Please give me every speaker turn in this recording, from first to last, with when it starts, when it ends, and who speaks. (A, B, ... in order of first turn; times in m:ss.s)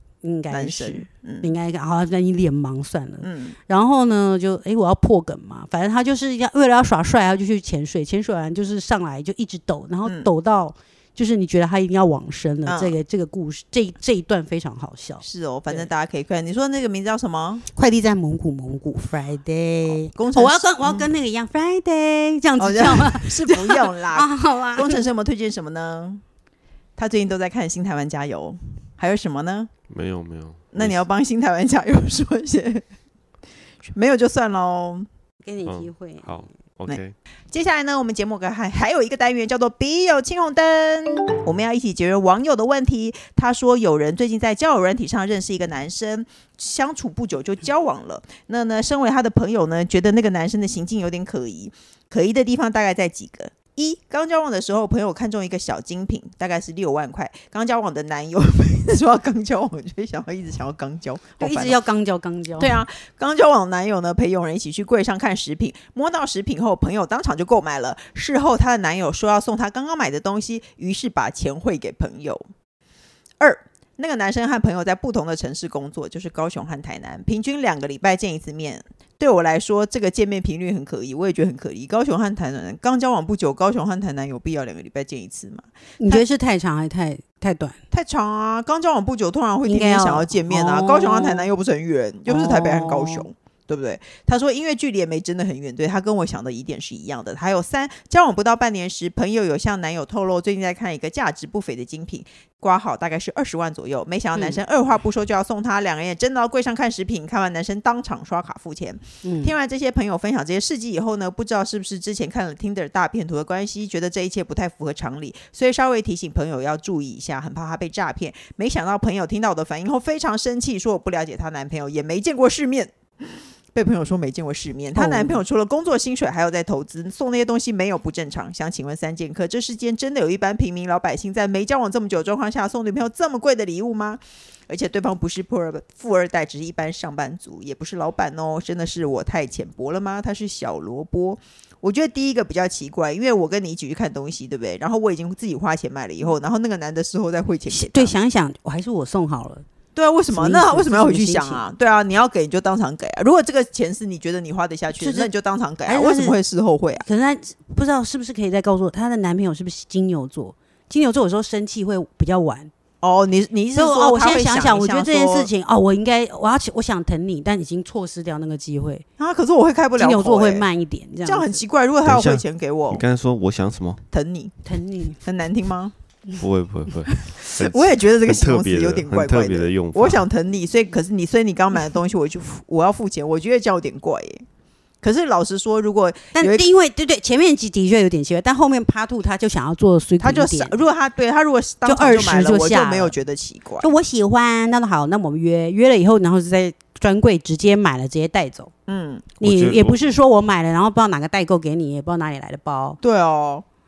0:00.2-0:15.9 A
0:00.5-0:01.5 B
0:03.2-0:03.6 B
0:12.6-0:13.0 B
0:15.2-0:17.6 B
0:17.7-0:25.0 A
0:20.0-0:21.1 B
0:22.6-0:26.2 B
0:27.0-0:29.7 B
0:29.9-0:31.0 C
0:30.7-0:32.8 B
0:33.8-0:35.1 B
0:35.4-0:36.4 A
0:35.6-0:37.1 C
0:37.5-1:01.8 B
1:01.4-1:02.8 A
1:02.6-1:12.4 B
1:13.4-1:26.2 B
1:26.0-1:27.8 A
1:27.9-2:28.1 B
1:29.6-1:31.4 A
1:32.3-1:33.3 A
1:44.3-1:44.6 A
1:49.2-1:49.5 A
2:04.9-2:05.4 A
2:27.7-2:29.6 A
2:30.0-2:37.0 B
2:30.3-2:31.6 A
2:35.0-2:35.3 A
2:35.8-2:36.4 A
2:37.0-2:42.7 A
2:43.0-2:45.5 B
2:43.7-2:49.0 A
2:49.2-2:50.7 B
2:50.0-2:51.6 A
2:51.2-2:53.0 B
2:52.0-2:54.0 C
2:54.1-2:54.5 B
2:54.6-2:55.2 A
2:55.2-2:55.9 B
2:56.4-3:00.2 C
2:57.5-3:04.4 B
3:05.0-3:06.7 B
3:06.4-3:10.7 A
3:10.2-3:13.9 B
3:11.8-3:13.1 A
3:13.8-3:18.7 A
3:18.9-3:19.3 B
3:19.4-3:23.0 A
3:19.4-3:20.1 C
3:23.0-3:23.6 B